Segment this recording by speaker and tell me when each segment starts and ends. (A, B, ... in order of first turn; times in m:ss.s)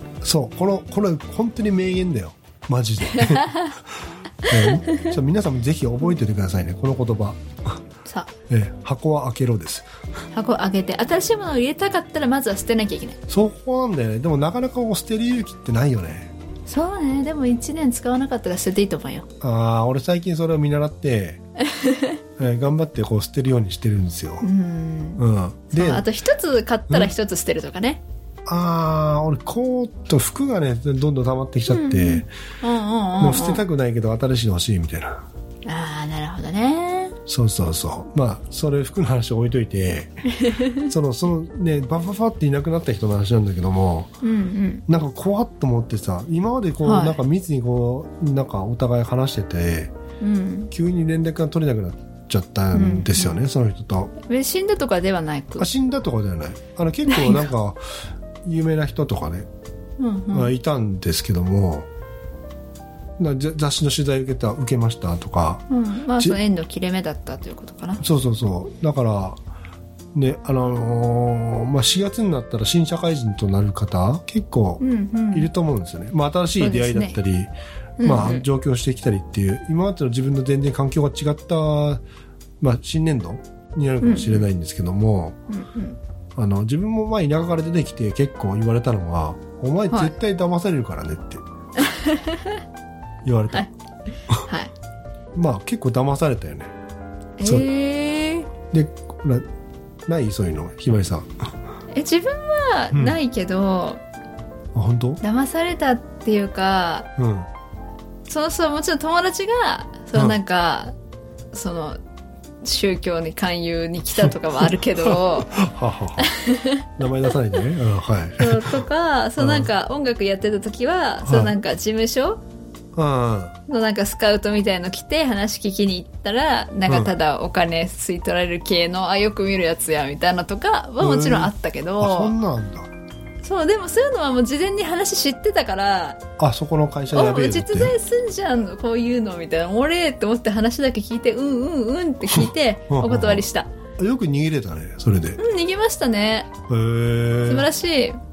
0:00.2-0:03.8 A
0:03.1-0:03.8 B
0:04.5-0:05.1 B
0:04.5-0:07.4 A
0:08.0-0:08.3 B
0:08.5-0:09.9 A
0:10.3-0:13.2 B
0:13.3-0:16.3 A
0:16.7-0:19.3 B
0:19.4-0:21.4 A
0:21.6-0:22.2 B
0:22.4-0:24.5 A
0:24.4-0:28.0 B
0:25.2-0:26.1 A
0:28.5-0:32.3 A
0:31.7-0:33.6 B
0:33.2-0:35.2 A
0:35.6-0:37.2 B
0:37.3-0:44.1 A
0:40.4-0:40.8 B
0:44.2-0:44.8 B
0:44.9-0:49.9 A
0:46.8-0:47.2 B
0:50.2-0:50.7 B
0:50.7-0:54.1 A
0:52.7-0:53.4 B
0:54.3-0:55.7 B
0:55.6-0:57.9 A
0:57.1-0:57.5 B
0:58.4-0:59.5 A
1:00.0-1:00.5 B
1:00.3-1:01.9 A
1:03.2-1:05.6 A
1:05.7-1:08.0 B
1:08.0-1:09.4 A
1:10.1-1:14.8 A
1:14.8-1:15.5 B
1:15.3-1:22.0 A
1:16.6-1:17.2 B
1:18.0-1:18.5 B
1:22.6-1:25.4 A
1:24.0-1:24.5 B
1:25.5-1:26.0 B
1:26.4-1:31.4 A
1:29.9-1:30.2 B
1:31.8-1:32.6 B
1:33.2-1:33.7 A
1:34.4-1:34.7 B
1:35.4-1:36.7 A
1:37.4-1:38.5 B
1:37.4-1:37.7 A
1:38.7-1:39.4 A
1:40.1-1:41.3 A
1:41.9-1:44.0 B
1:42.9-1:43.2 A
1:44.7-1:45.2 A
1:45.2-1:47.1 B
1:47.2-1:47.5 A
1:48.3-1:50.9 B
1:51.5-1:52.0 B
1:52.6-1:55.6 B
1:55.1-1:56.3 A
1:56.2-1:57.6 B
1:57.0-1:58.7 A
1:58.4-2:02.4 B
1:59.4-1:59.7 A
2:01.3-2:01.6 A
2:03.0-2:03.6 A
2:03.7-2:12.3 B
2:06.9-2:07.1 A
2:11.0-2:12.9 A
2:13.4-2:16.2 B
2:16.4-2:18.0 A
2:17.1-2:23.7 B
2:22.4-2:23.4 A
2:24.0-2:25.4 A
2:25.4-2:26.5 B
2:26.7-2:27.7 A
2:27.4-2:28.2 B